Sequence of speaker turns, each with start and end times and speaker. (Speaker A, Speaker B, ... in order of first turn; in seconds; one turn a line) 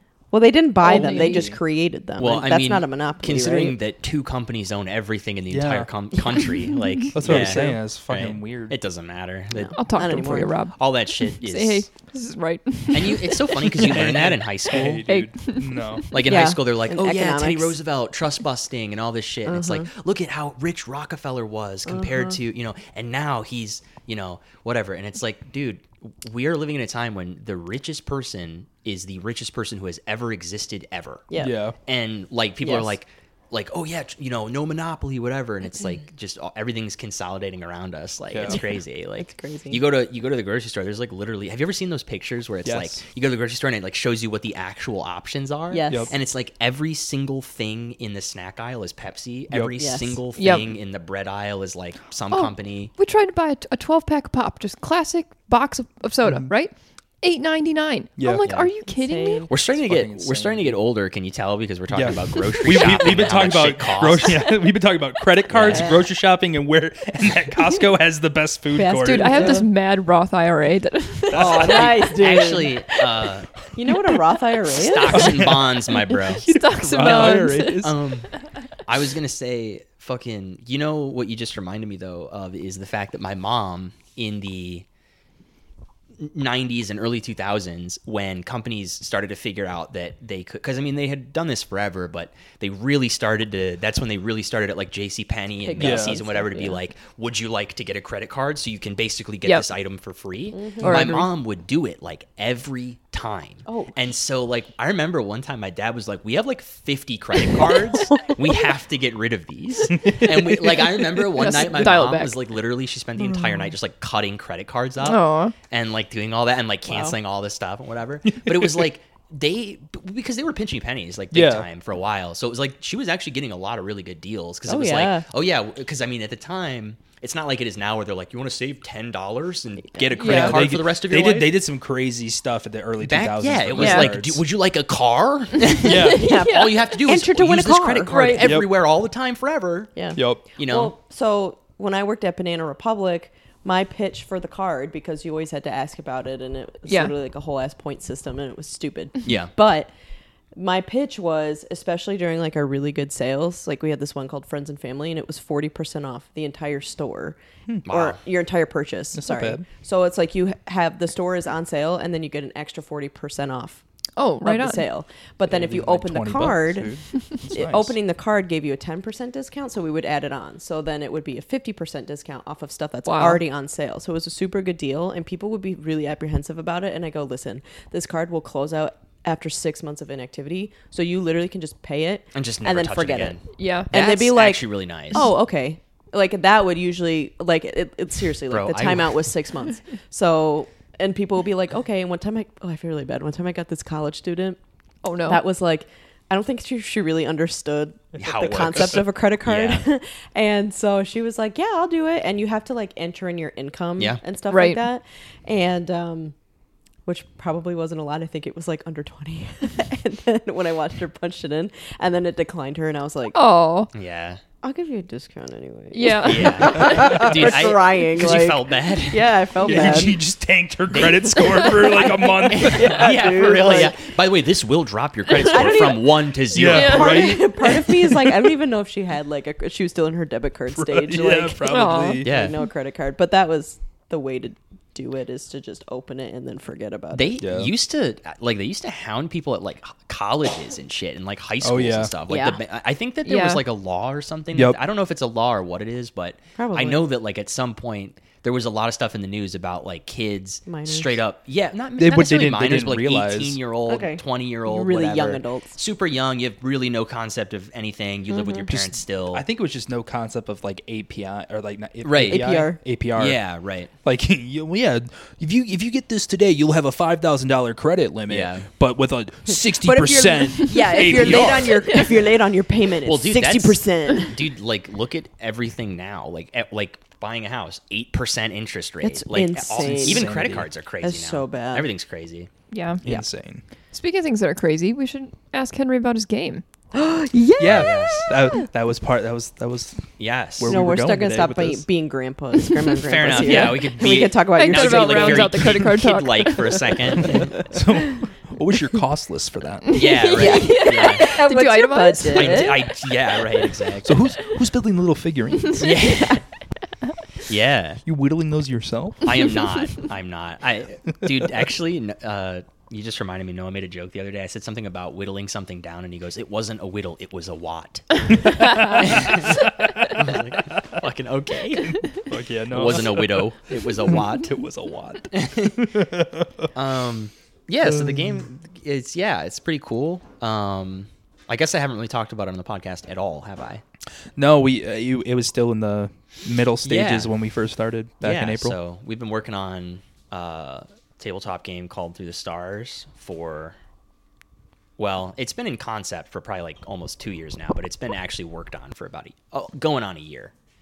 Speaker A: 0.3-3.8
Speaker B: 0.8-1.5
Speaker C: 1.0-1.6
Speaker D: 2.2-11.9
Speaker C: 5.5-5.9
Speaker C: 7.1-8.8
Speaker A: 9.5-10.5
Speaker B: 9.8-13.9
Speaker D: 12.9-15.0
Speaker C: 13.7-16.1
Speaker B: 15.1-16.1
Speaker D: 16.1-52.9
Speaker A: 16.2-17.8
Speaker A: 19.5-19.9
Speaker A: 21.9-22.4
Speaker A: 31.3-31.6
Speaker C: 31.4-31.8
Speaker A: 32.6-33.0
Speaker C: 38.3-38.6
Speaker A: 38.5-39.8
Speaker C: 42.6-43.0
Speaker A: 45.7-46.1
Speaker C: 49.5-49.8
Speaker A: 49.8-50.2
Speaker B: 50.4-50.7
Speaker B: 52.3-59.5
Speaker C: 56.2-56.5
Speaker C: 58.2-58.5
Speaker D: 58.5-58.7
Speaker A: 58.9-59.5
Speaker D: 59.5-64.5
Speaker C: 59.8-60.8
Speaker C: 61.9-69.6
Speaker D: 65.5-66.0
Speaker A: 65.7-66.0
Speaker A: 68.7-69.7
Speaker B: 69.0-71.7
Speaker C: 71.3-72.2
Speaker A: 71.3-72.9
Speaker D: 71.5-73.5
Speaker A: 73.7-75.5
Speaker D: 74.8-78.3
Speaker C: 75.1-78.0
Speaker B: 76.3-78.0
Speaker D: 78.9-84.9
Speaker D: 86.2-131.6
Speaker A: 95.6-96.8
Speaker C: 95.8-96.2
Speaker A: 100.5-101.3
Speaker B: 100.8-101.2
Speaker A: 103.7-103.9
Speaker C: 110.0-110.8
Speaker B: 111.3-112.4
Speaker B: 115.0-115.5
Speaker A: 116.9-117.1
Speaker C: 118.3-118.8
Speaker C: 121.3-121.7
Speaker A: 124.7-125.2
Speaker B: 130.2-130.6
Speaker C: 130.2-134.4
Speaker D: 133.0-140.9
Speaker A: 133.8-134.1
Speaker A: 135.7-138.4
Speaker C: 135.8-136.3
Speaker B: 136.0-136.7
Speaker B: 138.1-138.5
Speaker C: 138.4-138.7
Speaker A: 140.0-149.9
Speaker C: 140.2-140.4
Speaker B: 146.9-147.1
Speaker D: 149.2-149.5
Speaker A: 150.6-163.8
Speaker D: 157.9-158.2
Speaker C: 159.1-159.7
Speaker B: 164.2-164.8
Speaker A: 164.4-194.6
Speaker C: 165.5-167.9
Speaker B: 173.1-173.4
Speaker D: 182.3-185.3
Speaker B: 183.6-183.9
Speaker D: 188.5-189.2
Speaker B: 195.0-195.4
Speaker A: 195.3-206.3
Speaker D: 198.2-199.8
Speaker B: 204.5-204.8
Speaker A: 207.1-213.4
Speaker B: 213.3-213.9
Speaker D: 213.9-214.4
Speaker A: 214.6-220.2
Speaker B: 215.9-216.9
Speaker D: 216.2-220.1
Speaker C: 216.8-217.3
Speaker C: 219.6-223.1
Speaker D: 220.9-227.3
Speaker A: 221.6-224.0
Speaker A: 225.4-237.3
Speaker C: 226.5-228.3
Speaker B: 226.7-227.4
Speaker C: 230.7-232.4
Speaker B: 231.6-232.2
Speaker D: 232.2-232.6
Speaker D: 237.1-259.4
Speaker C: 237.4-237.7
Speaker C: 241.6-242.1
Speaker A: 242.3-242.6
Speaker B: 243.2-243.6
Speaker C: 244.5-244.8
Speaker A: 246.6-247.1
Speaker A: 250.7-251.2
Speaker C: 252.0-253.6
Speaker A: 253.9-255.8
Speaker A: 258.3-258.7
Speaker C: 258.7-263.4
Speaker D: 262.0-262.6
Speaker A: 262.2-262.8
Speaker D: 263.1-263.9
Speaker C: 264.0-271.8
Speaker D: 268.3-268.7
Speaker A: 269.7-274.4
Speaker D: 271.0-271.9
Speaker D: 273.1-282.5
Speaker A: 279.0-280.3
Speaker C: 279.7-280.7
Speaker A: 281.0-281.9
Speaker B: 282.7-283.0
Speaker C: 283.0-283.6
Speaker B: 283.9-286.6
Speaker A: 286.9-288.1
Speaker C: 287.6-291.9
Speaker D: 287.6-288.3
Speaker D: 290.2-290.8
Speaker A: 290.7-295.7
Speaker D: 293.0-297.7
Speaker B: 293.3-293.9
Speaker B: 294.6-297.2
Speaker C: 297.2-300.1
Speaker B: 299.9-302.8
Speaker D: 299.9-301.4
Speaker A: 300.3-302.9
Speaker D: 302.3-304.2
Speaker C: 304.0-306.1
Speaker D: 305.8-306.4
Speaker A: 306.1-306.4
Speaker D: 307.4-308.0
Speaker C: 308.1-309.4
Speaker D: 309.2-324.6
Speaker C: 318.4-321.0
Speaker C: 322.0-326.7
Speaker D: 325.3-325.9
Speaker D: 326.7-333.8
Speaker C: 327.8-328.4
Speaker C: 334.4-338.8
Speaker D: 336.8-337.3
Speaker D: 338.2-343.8
Speaker D: 345.0-350.5